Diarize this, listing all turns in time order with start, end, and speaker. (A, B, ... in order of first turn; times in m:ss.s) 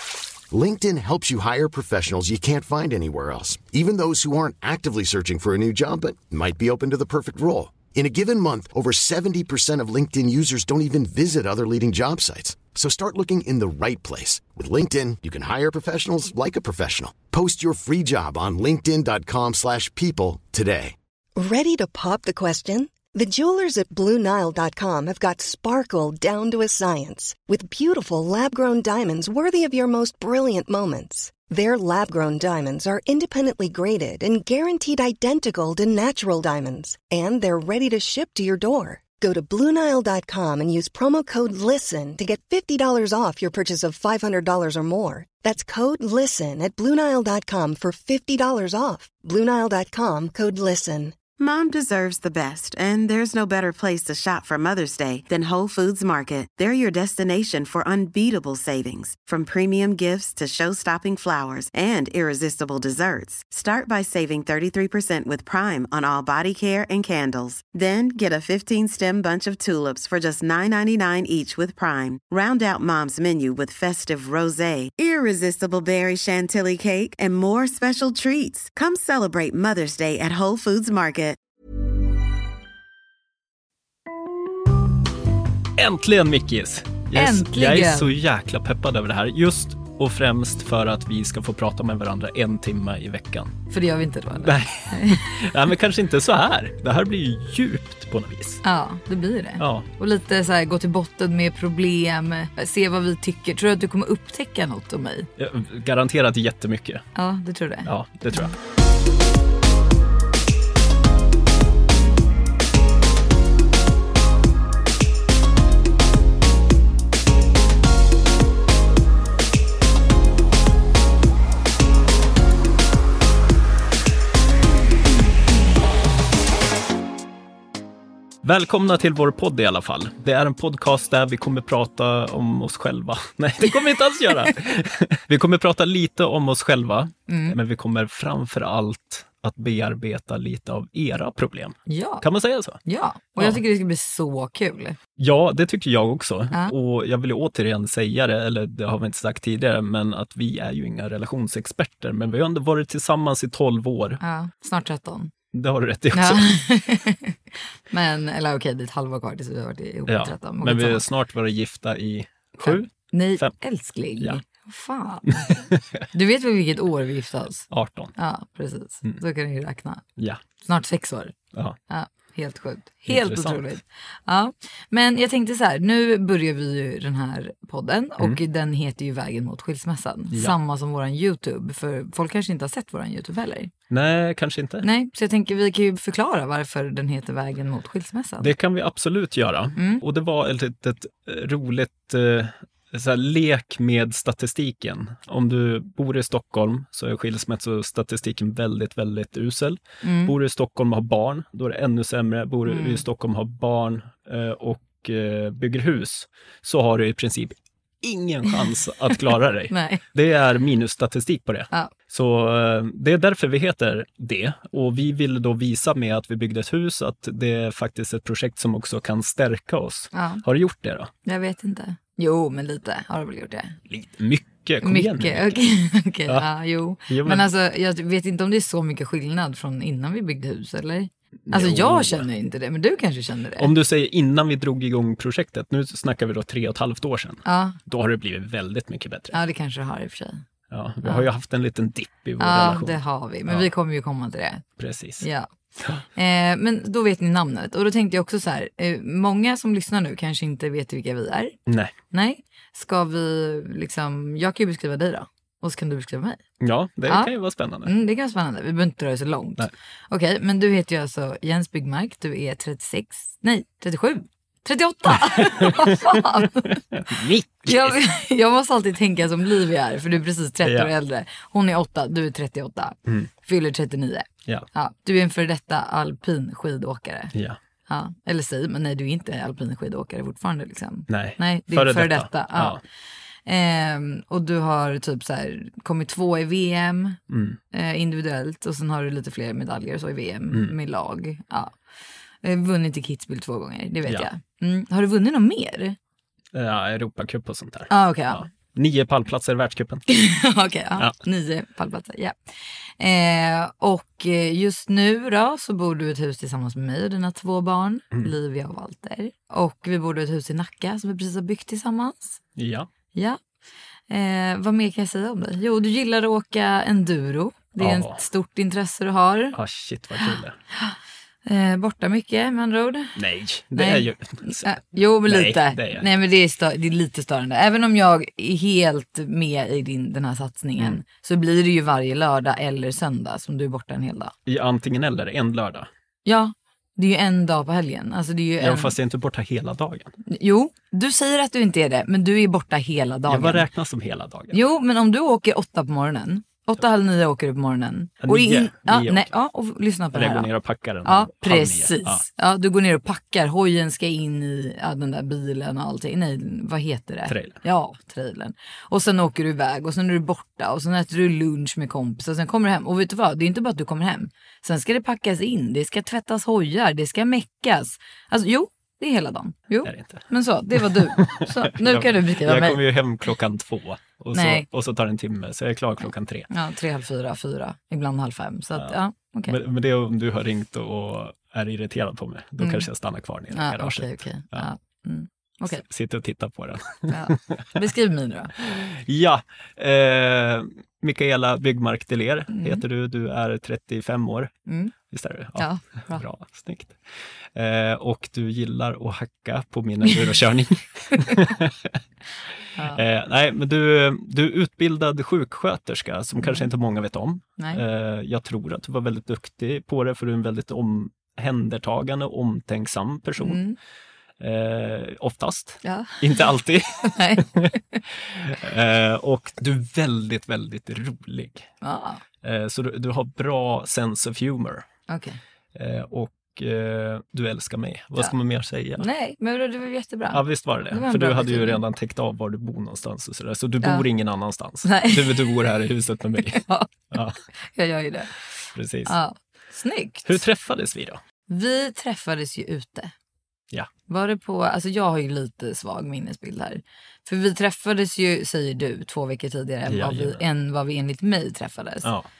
0:00.5-0:21.0 A
0:21.4-0:51.2 B
0:51.4-1:21.4 C
1:25.8-1:33.6 D
1:27.1-1:28.1 E
1:33.7-1:35.2 E
1:34.4-1:38.6 D
1:38.6-1:45.3 E
1:39.6-1:39.9 D
1:45.4-1:47.0 D
1:47.2-1:48.5 E
1:47.8-1:48.5 D
2:08.4-2:22.8 D
2:17.3-2:17.6 E
2:21.9-2:22.2 E
2:22.8-2:25.0 E
2:25.2-2:34.2 D
2:34.2-2:35.3 E
2:35.5-2:36.5 D
2:36.1-2:37.4 E
2:37.9-2:41.0 E
2:40.1-2:43.6 D
2:42.6-2:50.0 E
2:45.3-2:46.0 D
2:47.7-2:48.1 D
2:50.6-2:51.3 E
2:51.9-3:03.7 E
2:53.1-2:53.6 D
3:03.9-3:04.8 D
3:04.8-3:08.5 E
3:08.4-3:41.1 D
3:20.0-3:20.3 E
3:22.7-3:23.0 E
3:29.7-3:30.0 E
3:40.1-3:40.4 E
3:41.2-3:43.8 E
3:43.9-3:45.7 D
3:44.8-3:53.7 E
3:47.1-3:47.5 D
3:51.5-3:52.2 D
3:53.6-3:59.4 D
3:57.4-3:57.8 E
3:59.3-4:00.4 E
4:00.7-4:03.7 D
4:02.4-4:04.6 E
4:04.8-4:05.2 D
4:05.2-4:05.5 E
4:05.8-4:06.0 D
4:06.1-4:11.6 E
4:11.7-4:11.9 D
4:12.1-4:16.4 E
4:16.6-4:17.9 D
4:17.8-4:26.8 E
4:25.1-4:28.0 D
4:27.6-4:37.3 E
4:30.6-4:30.9 D
4:37.9-4:42.8 E
4:41.1-4:42.8 D
4:43.4-4:47.2 E
4:47.3-4:47.6 D
4:47.7-4:51.8 E
4:52.4-4:56.0 E
4:56.5-5:00.1 D
4:57.9-4:58.4 E
5:00.1-5:02.4 E
5:03.0-5:12.4 E
5:12.6-5:12.9 D
5:13.1-5:13.4 E
5:14.1-5:19.6 E
5:17.8-5:18.2 D
5:19.5-5:20.6 D
5:20.2-5:23.2 E
5:23.2-5:26.1 D
5:23.7-5:34.3 E
5:34.5-5:35.9 D
5:36.2-5:38.9 E
5:38.6-5:40.1 D
5:40.3-5:43.6 E
5:43.3-5:44.6 D
5:44.5-5:50.5 E
5:48.2-5:49.3 D
5:50.1-5:52.2 D
5:51.0-6:12.8 E
5:57.3-5:57.6 D
6:09.8-6:16.5 D
6:14.3-6:14.7 E
6:16.5-6:19.6 E
6:19.5-6:24.7 D
6:22.6-6:22.9 E
6:23.5-6:25.8 E
6:25.6-6:27.7 D
6:27.1-6:28.5 E
6:28.6-6:34.5 D
6:32.5-6:32.8 E
6:34.7-6:34.9 E
6:35.1-6:37.0 D
6:35.6-6:36.2 E
6:37.5-6:42.0 D
6:40.0-6:40.3 E
6:42.8-6:43.0 E
6:42.9-6:53.6 D
6:46.4-6:46.7 E
6:53.4-6:53.8 E
6:54.4-7:01.7 D
6:55.8-6:56.5 E
6:57.0-6:58.0 E
7:01.8-7:02.2 E
7:02.4-7:04.8 D
7:05.1-7:05.4 E
7:05.7-7:09.0 D
7:09.0-7:11.8 E
7:10.3-7:17.4 D
7:14.8-7:15.5 E
7:16.5-7:16.9 E
7:17.6-7:18.5 E
7:18.7-7:19.1 D
7:19.0-7:20.4 E
7:20.2-7:21.2 D
7:21.5-7:23.1 E
7:24.1-7:32.1 E
7:29.9-7:30.4 D